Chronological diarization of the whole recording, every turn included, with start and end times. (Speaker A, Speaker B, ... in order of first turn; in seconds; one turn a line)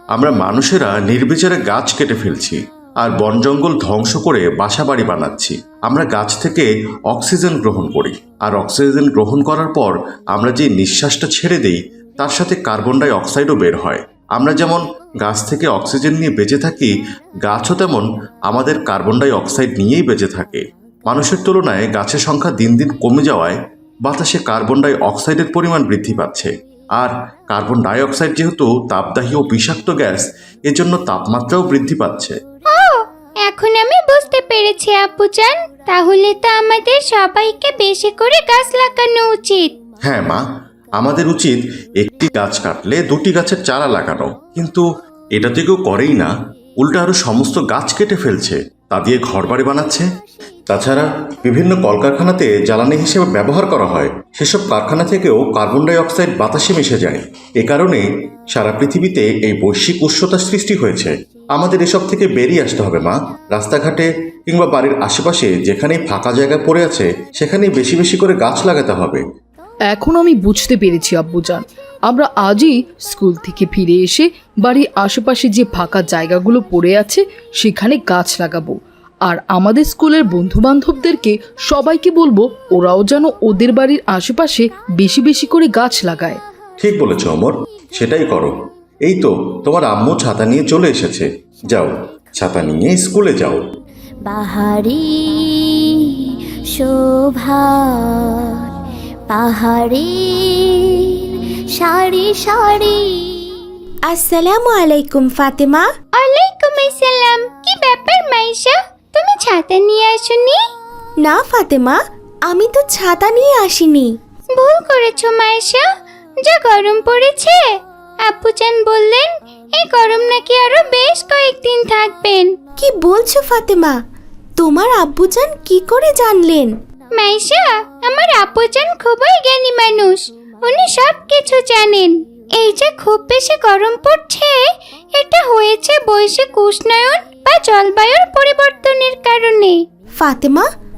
Speaker A: 0.1-16.9
Speaker A: 17.4-32.4
Speaker B: 32.7-39.7
Speaker A: 40.0-40.4
Speaker A: 41.0-50.0
Speaker A: 50.7-69.2
Speaker C: 69.9-86.4
Speaker A: 86.8-93.6
Speaker D: 94.2-98.7
Speaker D: 99.3-101.2
Speaker D: 101.8-103.7
Speaker E: 104.1-105.9
Speaker B: 106.2-110.6
Speaker E: 111.2-114.1
Speaker B: 114.5-115.8
Speaker B: 116.4-117.7
Speaker B: 118.2-122.5
Speaker E: 122.8-123.9
Speaker E: 124.6-126.7
Speaker B: 127.2-134.6
Speaker B: 135.1-139.8
Speaker E: 140.2-140.7